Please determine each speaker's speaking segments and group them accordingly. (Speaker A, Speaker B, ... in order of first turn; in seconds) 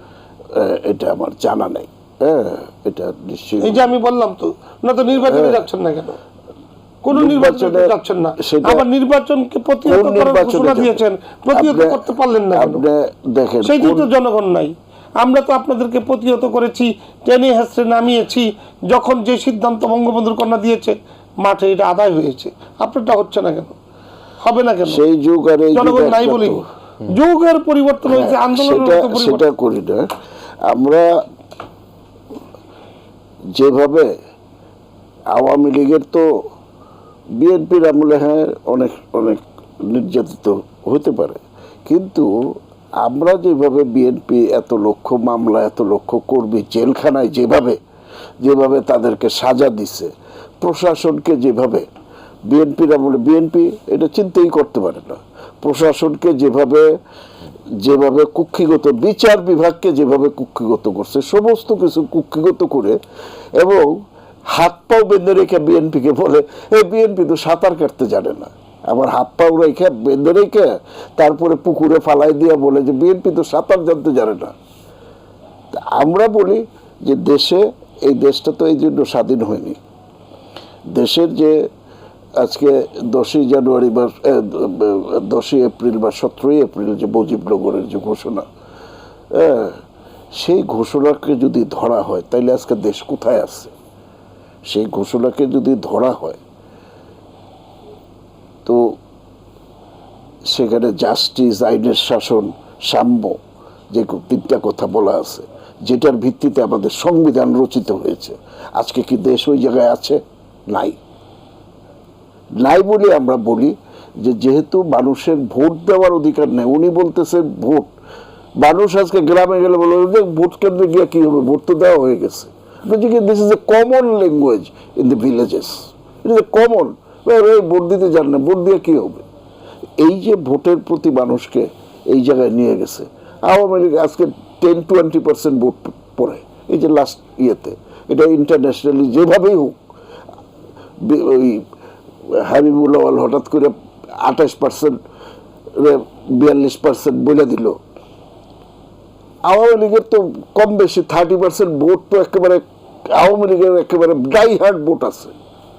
Speaker A: 0.5-3.9, 5.2-5.6, 7.1-8.9, 9.8-14.1, 24.9-26.6, 28.1-30.1, 30.6-31.2, 33.5-34.1, 35.3-36.4, 37.4-47.8, 48.4-51.9, 52.5-57.0, 57.8-63.0, 63.6-74.5, 75.7-79.8, 80.9-81.7, 82.4-88.4, 89.3-89.8, 90.3-93.7, 94.7-96.4, 98.6-99.0, 100.5-103.4, 103.9-111.0, 112.6-117.9, 118.6-129.2, 130.0-139.8, 141.0-141.7, 142.2-145.0, 145.7-147.8, 149.4-155.3
Speaker B: 3.6-6.2, 7.0-12.8, 13.6-23.8, 24.4-25.0, 25.7-29.4